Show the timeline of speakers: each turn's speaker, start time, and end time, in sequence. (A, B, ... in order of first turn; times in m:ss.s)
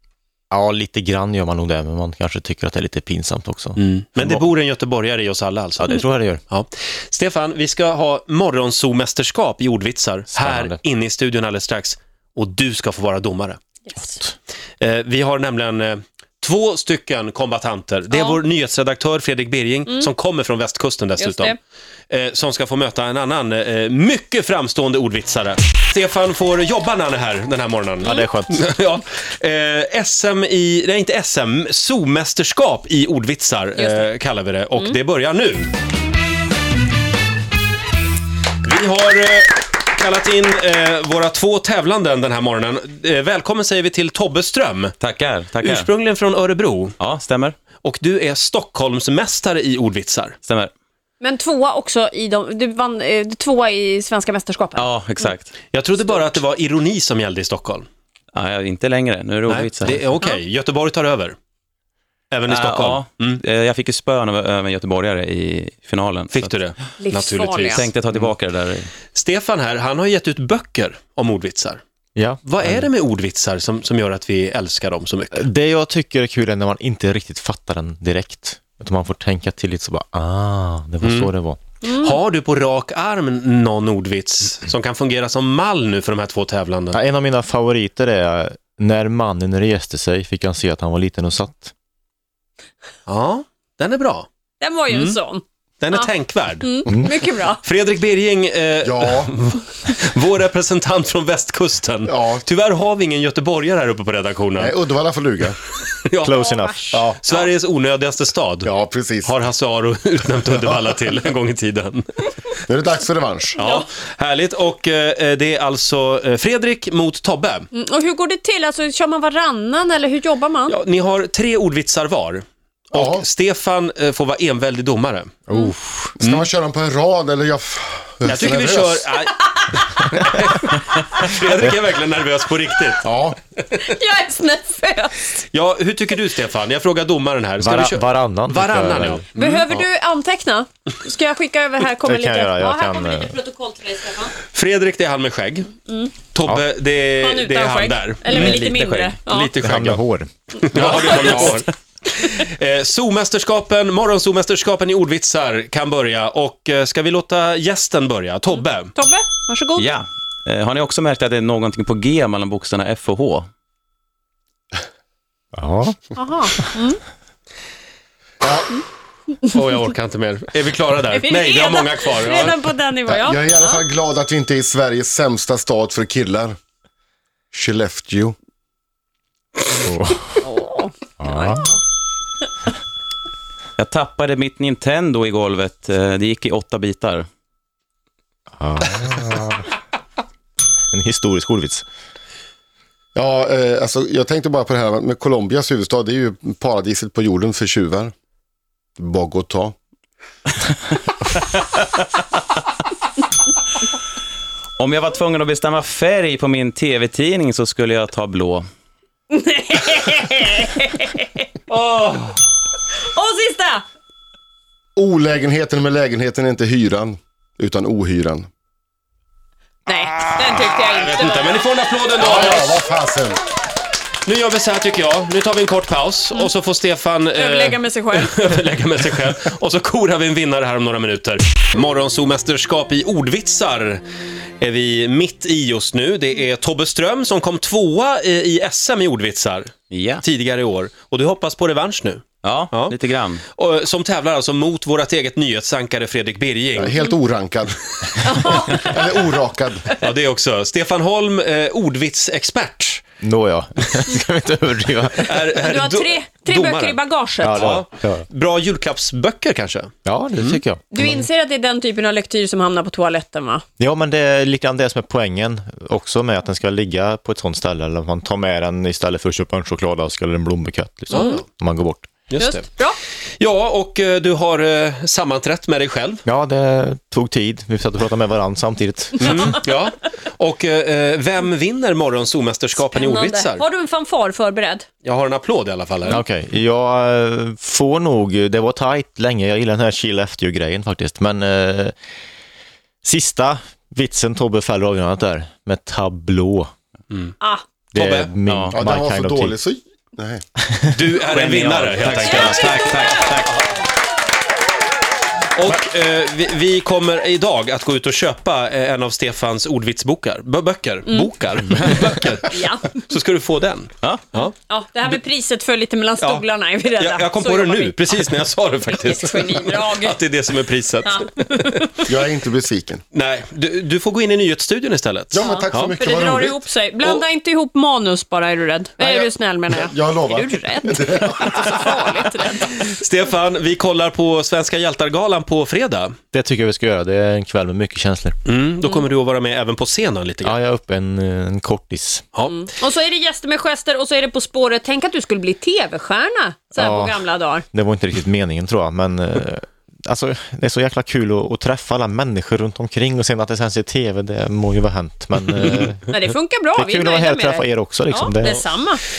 0:00.5-0:04.5 A
0:03.8-0:05.9 B
0:05.8-0:06.4 A
0:06.5-0:13.6 B
0:10.3-0:10.8 A
0:13.8-0:14.2 C
0:14.0-0:14.3 A
0:14.8-0:21.6 B
0:18.1-0:18.4 C
0:21.2-0:21.6 C
0:22.1-0:35.7 B
0:28.0-0:28.7 A
0:33.8-0:34.1 C
0:38.6-0:44.9 B
0:45.0-0:45.9 D
0:45.6-0:47.0 B
0:47.0-0:47.6 D
0:47.8-0:50.4 B
0:50.4-0:50.7 D
0:51.2-0:55.3 C
0:54.8-0:55.5 D
0:55.7-0:57.9 B
0:58.3-1:00.1 D
0:59.5-1:01.4 B
1:02.3-1:03.4 B
1:02.5-1:06.5 D
1:06.3-1:08.3 B
1:07.0-1:07.9 C
1:07.7-1:08.9 D
1:09.1-1:11.8 B
1:12.2-1:12.8 A
1:12.4-1:15.4 B
1:15.3-1:21.6 A
1:21.0-1:21.3 B
1:21.8-1:22.2 C
1:22.0-1:27.0 B
1:26.9-1:31.7 A
1:33.0-1:34.3 B
1:34.6-1:36.1 C
1:34.9-1:35.1 B
1:35.8-1:36.7 B
1:36.6-1:37.6 C
1:37.6-1:44.8 B
1:38.8-1:39.3 E
1:42.0-1:42.4 E
1:44.6-1:45.6 E
1:46.1-1:46.4 B
1:46.2-1:47.0 A
1:46.3-1:47.0 C
1:46.9-1:47.2 E
1:47.2-1:48.7 B
1:48.6-1:49.3 E
1:49.2-1:52.0 B
1:52.7-1:53.6 E
1:53.6-1:53.8 C
1:53.6-1:57.7 B
1:57.7-2:00.8 C
2:00.7-2:05.3 B
2:02.9-2:03.2 E
2:05.5-2:06.1 A
2:06.2-2:09.0 E
2:06.2-2:06.5 B
2:08.2-2:13.0 B
2:13.0-2:13.4 E
2:13.8-2:15.4 C
2:15.5-2:19.8 B
2:17.6-2:19.2 A
2:19.3-2:24.4 C
2:22.0-2:23.4 A
2:24.5-2:25.7 B
2:25.8-2:26.1 C
2:26.3-2:28.6 B
2:27.2-2:29.5 C
2:28.3-2:29.2 D
2:29.3-2:30.0 B
2:29.6-2:30.3 A
2:30.6-2:38.9 B
2:30.7-2:31.3 E
2:30.8-2:31.5 A
2:31.0-2:31.5 C
2:38.5-2:39.9 C
2:39.8-2:43.5 D
2:45.5-2:46.7 A
2:46.1-2:47.0 C
2:48.4-2:48.8 E
2:49.5-2:52.6 B
2:51.1-2:53.8 C
2:53.1-2:56.6 E
2:57.5-2:58.3 E
2:59.8-3:00.4 A
3:00.4-3:01.8 C
3:01.2-3:01.7 A
3:03.8-3:07.3 D
3:08.5-3:09.7 A
3:10.9-3:11.8 A
3:13.1-3:18.1 E
3:19.0-3:19.7 E
3:24.8-3:28.7 D
3:29.3-3:31.5 C
3:31.7-3:32.2 B
3:33.1-3:33.8 C
3:35.0-3:38.5 E
3:39.8-3:41.6 C
3:41.0-3:42.8 B
3:42.2-3:43.4 E
3:44.2-3:54.0 B
3:47.3-3:48.4 C
3:54.6-4:03.0 B
3:59.9-4:00.2 D
4:02.4-4:03.4 D
4:03.5-4:07.0 B
4:06.7-4:09.9 E
4:08.2-4:09.0 C
4:10.0-4:13.0 B
4:13.2-4:15.4 A
4:15.2-4:17.0 B
4:15.6-4:17.7 C
4:17.4-4:18.2 A
4:17.5-4:20.6 B
4:20.0-4:21.3 A
4:20.9-4:23.6 C
4:23.8-4:32.1 A
4:31.1-4:31.4 C
4:31.1-4:31.4 B
4:32.3-4:32.7 B
4:32.4-4:33.0 C
4:33.4-4:36.2 B
4:36.2-4:39.6 A
4:39.2-4:43.6 B
4:42.8-4:44.8 C
4:45.0-4:46.2 B
4:46.1-4:51.9 A
4:53.0-4:56.7 A
4:57.1-4:57.4 B
4:57.9-4:59.6 A
4:57.9-4:58.3 B
4:58.4-4:58.8 D
4:58.7-5:00.4 E
5:00.9-5:03.3 B
5:01.2-5:03.6 D
5:05.6-5:14.5 B
5:11.0-5:11.3 C
5:12.4-5:13.0 C
5:14.7-5:18.1 C
5:17.0-5:21.7 B
5:18.9-5:20.2 C
5:21.0-5:22.0 C
5:22.0-5:23.0 E
5:23.1-5:25.9 B
5:25.3-5:26.6 E
5:25.4-5:32.8 C
5:29.0-5:32.1 E
5:32.7-5:36.2 B
5:36.3-5:38.4 A
5:38.4-5:40.6 B
5:40.4-5:42.2 A
5:42.4-5:47.6 C
5:46.8-5:56.1 A
5:56.1-5:59.0 C
5:56.7-5:58.6 A